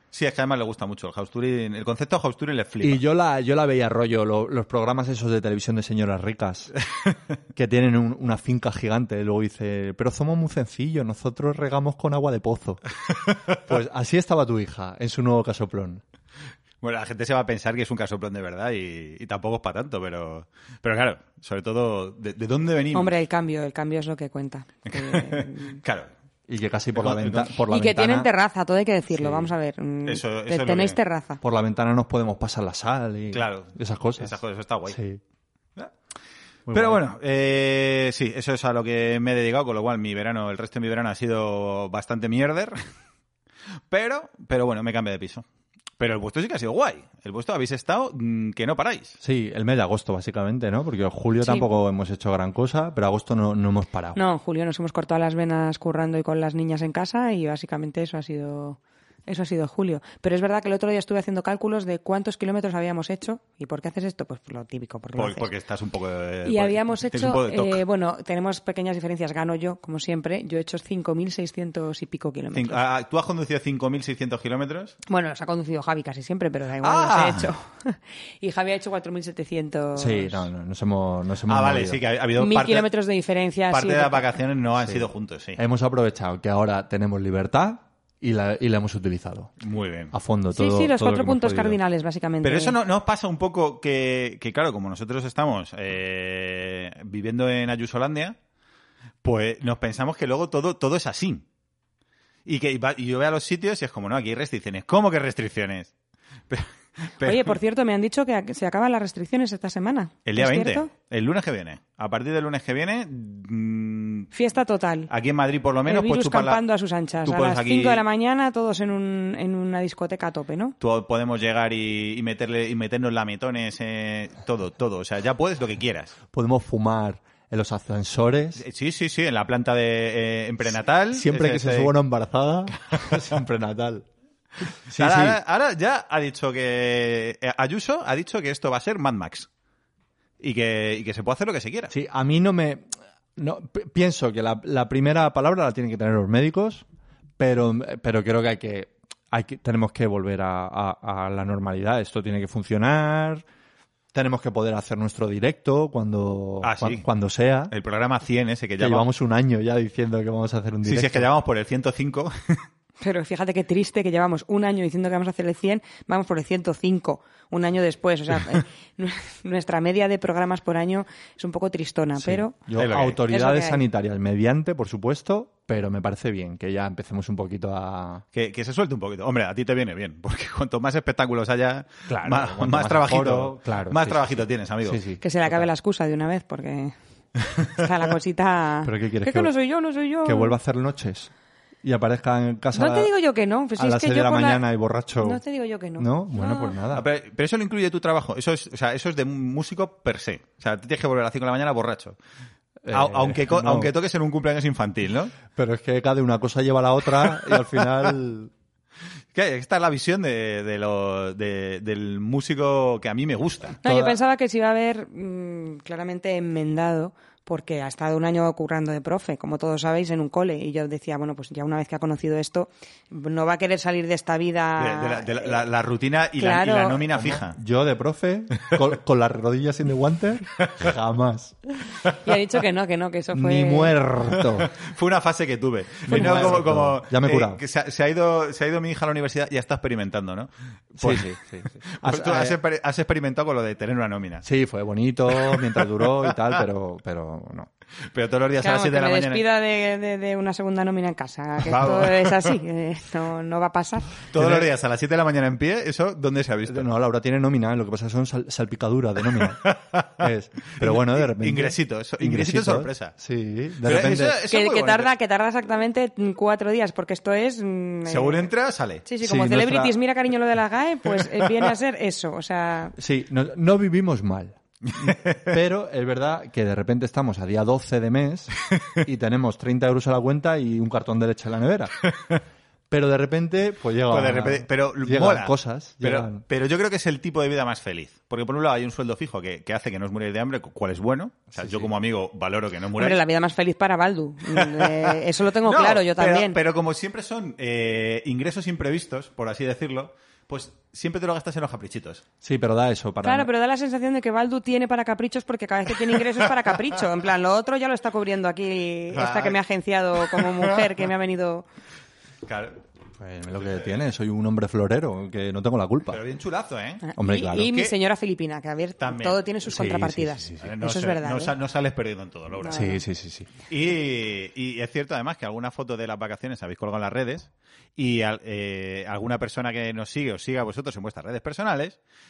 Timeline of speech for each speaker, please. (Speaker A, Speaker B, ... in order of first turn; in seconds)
Speaker A: 0.1-3.0, 13.2-13.6, 16.8-23.2, 24.9-26.1, 26.9-27.5, 30.1-31.0, 33.3-35.0, 36.7-42.8, 43.9-45.4, 46.0-49.2, 65.2-67.8, 72.5-75.0, 76.8-77.5, 81.5-82.9, 83.7-85.6, 89.6-90.1, 92.4-98.4, 99.2-101.5, 102.5-105.9, 106.5-107.6, 110.3-114.3, 115.1-116.6, 117.2-118.0, 120.8-126.2, 128.6-131.9, 134.9-139.5, 140.4-141.9, 156.6-157.0, 157.7-159.1, 160.8-162.7, 172.8-173.2, 178.3-185.0, 196.9-202.2, 202.9-205.4, 209.3-213.8, 224.8-227.6, 230.6-230.9, 234.3-244.5, 245.3-246.5, 248.1-249.4, 251.7-252.6, 254.3-256.9, 259.4-263.1, 263.8-265.1, 268.1-269.1, 275.0-275.5, 282.1-282.4, 284.1-293.2, 294.5-302.2, 309.1-309.6, 310.2-310.9, 312.4-312.8, 316.1-317.1, 317.6-317.9, 319.0-319.4, 320.6-322.9, 323.7-332.0
Speaker B: 2.8-6.7, 7.5-12.8, 13.7-16.0, 26.5-28.3, 29.2-29.5, 31.4-34.3, 34.9-35.2, 36.7-37.0, 49.2-54.2, 80.0-82.0, 84.8-89.5, 90.1-91.8, 126.3-128.6, 131.1-134.1, 134.9-135.4, 141.9-146.8, 147.4-153.4, 154.1-157.7, 158.8-161.3, 172.2-178.2, 182.1-185.2, 188.8-189.5, 190.2-191.3, 191.8-193.1, 193.8-195.4, 196.0-197.1, 202.8-203.9, 205.5-208.5, 213.8-214.2, 227.3-231.6, 233.3-234.7, 236.1-237.6, 241.0-242.6, 244.4-247.7, 254.3-254.7, 256.7-264.4, 269.2-269.9, 273.0-281.9, 282.9-286.4, 291.6-291.9, 302.4-303.5, 313.2-316.2, 317.2-317.8, 319.7-320.5, 322.7-323.5
Speaker C: 22.9-25.8, 27.7-31.4, 51.4-51.7, 54.2-65.5, 66.5-72.8, 75.1-80.5, 82.4-84.3, 90.5-92.8, 107.2-110.9, 114.3-115.1, 115.9-120.8, 163.0-172.6, 173.3-173.8, 185.2-186.9, 187.8-190.6, 192.7-194.7, 195.2-196.8, 213.8-225.6, 226.4-227.1, 232.0-234.0, 236.1-236.6, 248.6-254.2, 264.5-268.5, 269.1-272.9, 293.0-296.6, 303.2-311.7, 317.0-321.6, 322.6-323.0